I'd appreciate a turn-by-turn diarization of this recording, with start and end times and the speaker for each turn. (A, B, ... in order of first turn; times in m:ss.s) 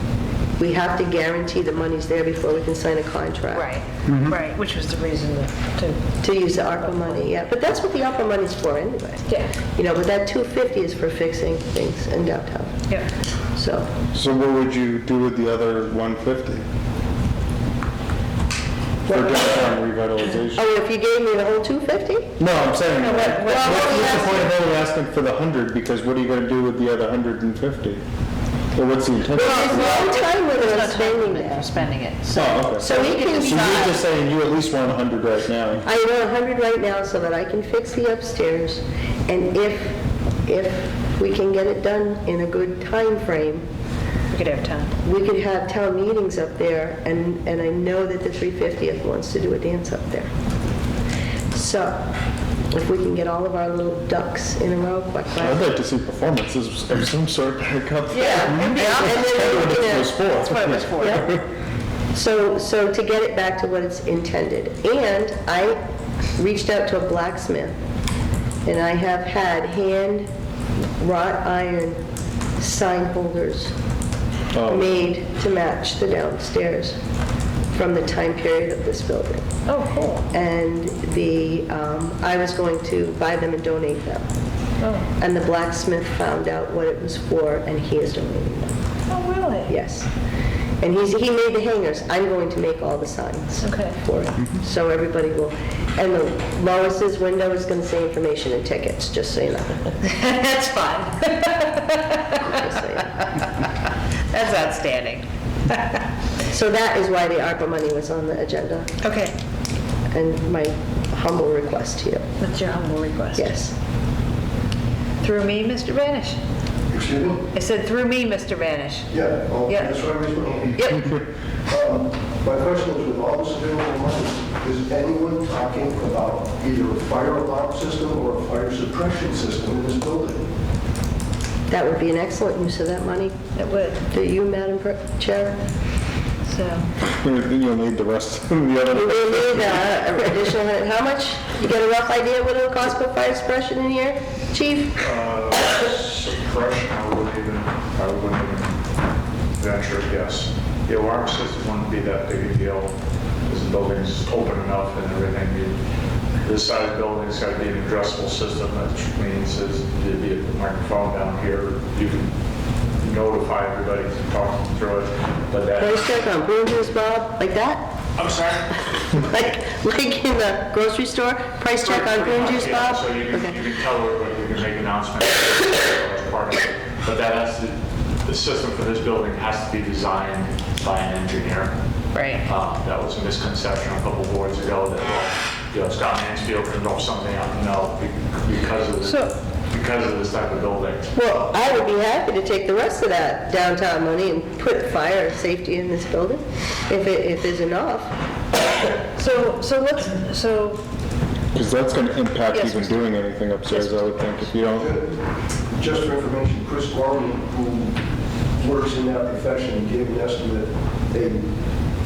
0:00.6-0:03.7 A
0:03.5-0:06.0 B
0:04.1-0:04.4 C
0:06.2-0:12.8 A
0:06.9-0:07.2 B
0:09.3-0:09.5 B
0:13.5-0:13.9 A
0:14.1-0:16.6 C
0:19.1-0:19.7 A
0:19.1-0:20.6 C
0:20.5-0:22.3 A
0:22.4-0:28.0 C
0:23.0-0:24.4 B
0:23.4-0:24.5 A
0:28.8-0:30.2 C
0:29.4-0:31.7 A
0:29.4-0:33.9 B
0:32.3-0:35.8 C
0:32.8-0:34.0 A
0:35.8-0:43.6 A
0:44.3-0:44.9 B
0:45.0-0:50.3 A
0:51.5-0:52.1 A
0:52.7-0:55.6 A
0:55.4-1:01.4 C
0:58.1-1:00.2 A
0:58.6-0:59.3 B
1:00.2-1:01.2 B
1:01.0-1:01.3 A
1:02.1-1:05.8 A
1:06.4-1:07.7 A
1:08.6-1:10.3 A
1:11.0-1:12.0 A
1:12.6-1:13.7 A
1:14.5-1:14.9 C
1:14.6-1:17.0 A
1:17.7-1:19.5 A
1:19.7-1:20.3 B
1:20.3-1:24.3 A
1:24.8-1:25.1 B
1:25.2-1:28.7 A
1:29.1-1:29.7 B
1:29.7-1:30.1 A
1:30.8-1:40.0 A
1:33.6-1:34.0 B
1:40.0-1:42.6 B
1:42.4-1:43.2 A
1:43.2-1:43.5 B
1:44.3-1:46.0 B
1:46.5-1:48.9 A
1:49.0-1:49.4 B
1:50.1-1:52.2 A
1:52.4-1:53.6 B
1:53.4-1:53.8 A
1:55.2-1:56.4 B
1:56.9-1:57.5 D
1:57.5-2:00.0 B
1:59.1-2:10.5 D
2:00.8-2:01.1 B
2:11.7-2:13.4 A
2:13.5-2:14.0 B
2:14.0-2:15.6 A
2:16.4-2:16.9 B
2:17.0-2:20.0 C
2:18.9-2:25.0 A
2:25.0-2:28.8 E
2:29.6-2:33.0 E
2:33.5-2:35.8 E
2:36.4-2:42.3 E
2:43.0-2:46.1 E
2:45.8-2:47.9 A
2:48.2-2:48.9 E
2:49.1-2:53.6 A
2:51.8-3:01.7 E
3:02.1-3:02.5 B
3:02.4-3:11.1 E
3:09.0-3:09.3 B
3:11.1-3:18.1 A
3:19.1-3:20.8 B
3:21.5-3:24.9 C
3:22.5-3:24.3 B
3:24.8-3:31.5 D